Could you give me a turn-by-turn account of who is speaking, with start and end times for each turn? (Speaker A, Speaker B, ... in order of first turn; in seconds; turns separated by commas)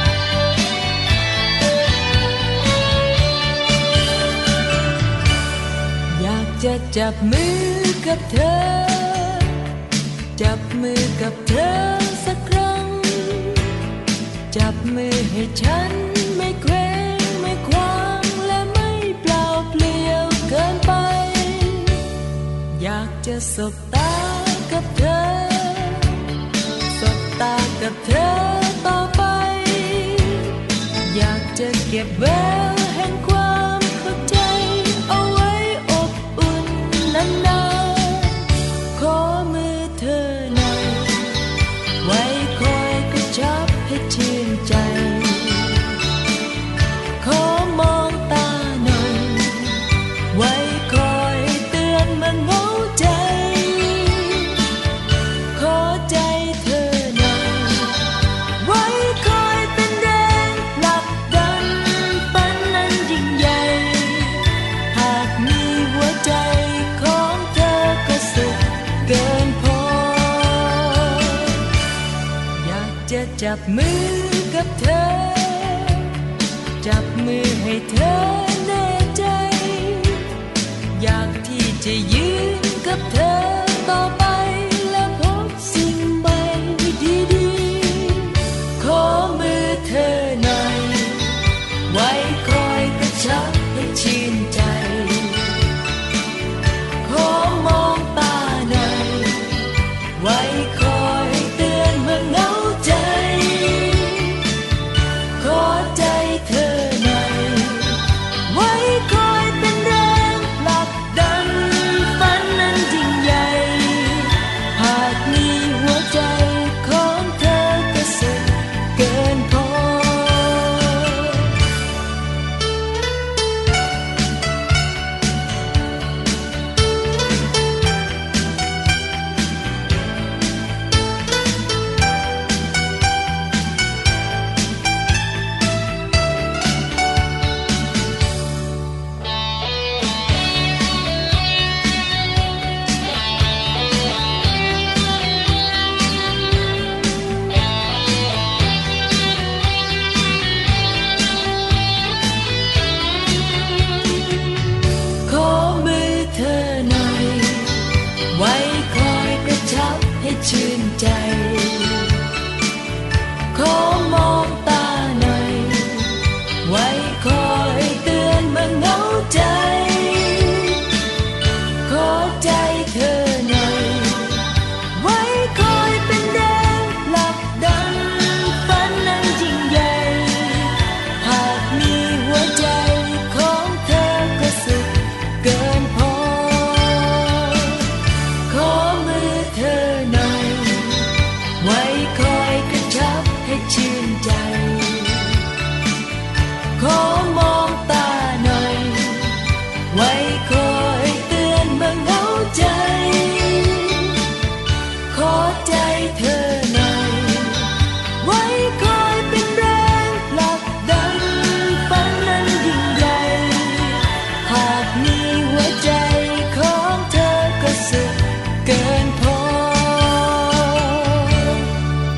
Speaker A: 6.1-9.6, Speaker A: 10.4-13.7, Speaker A: 14.5-22.0, Speaker A: 22.8-26.2, Speaker A: 26.9-30.5, Speaker A: 31.1-41.4, Speaker A: 42.0-45.9, Speaker A: 47.2-54.6, Speaker A: 55.5-58.0, Speaker A: 58.6-71.6, Speaker A: 72.6-76.1, Speaker A: 76.8-80.3, Speaker A: 80.9-91.4, Speaker A: 91.9-95.5, Speaker A: 97.0-99.6, Speaker A: 100.2-104.4, Speaker A: 105.3-121.4, Speaker A: 155.2-162.2, Speaker A: 163.5-170.8, Speaker A: 171.8-174.4, Speaker A: 174.9-187.8, Speaker A: 188.5-195.4, Speaker A: 196.8-199.4, Speaker A: 199.9-204.2, Speaker A: 205.1-221.6